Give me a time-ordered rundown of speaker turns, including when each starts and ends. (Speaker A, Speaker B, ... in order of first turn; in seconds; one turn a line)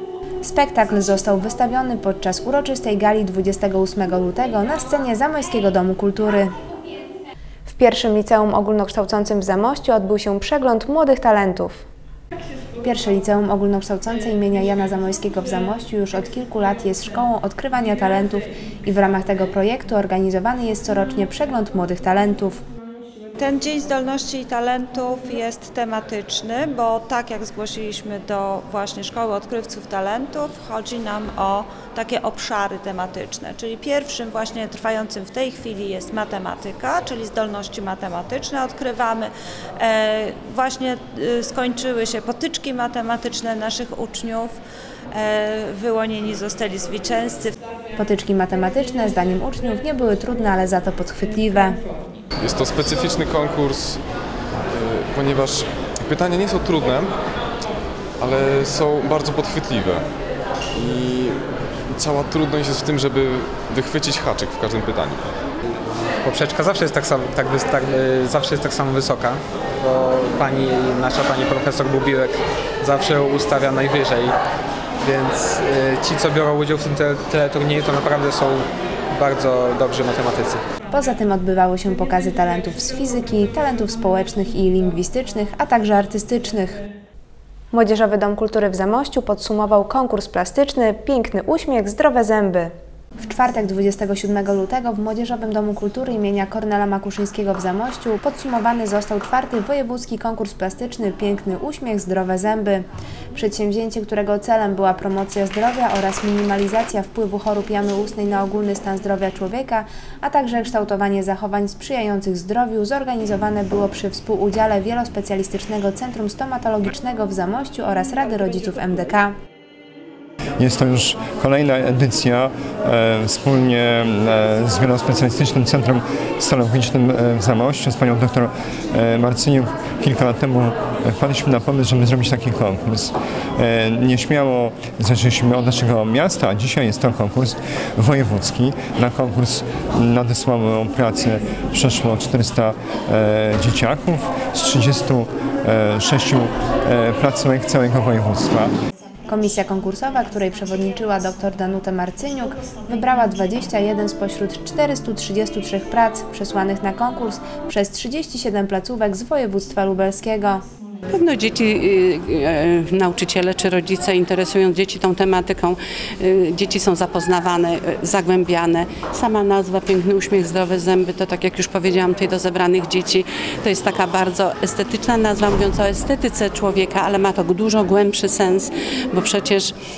Speaker A: 0.4-6.5
Speaker A: 7.6-11.8
Speaker A: 12.8-22.6
Speaker B: 23.4-39.3
Speaker B: 39.8-44.6
Speaker B: 45.1-47.5
Speaker A: 48.0-51.8
Speaker C: 52.4-54.0
Speaker C: 54.7-57.1
Speaker C: 58.2-60.0
Speaker C: 60.8-61.4
Speaker C: 61.9-65.2
Speaker D: 66.2-74.3
Speaker D: 75.0-78.7
Speaker D: 79.2-80.6
Speaker A: 80.9-86.7
Speaker A: 87.7-119.3
Speaker E: 120.6-148.7
Speaker A: 149.3-160.6
Speaker F: 161.1-179.7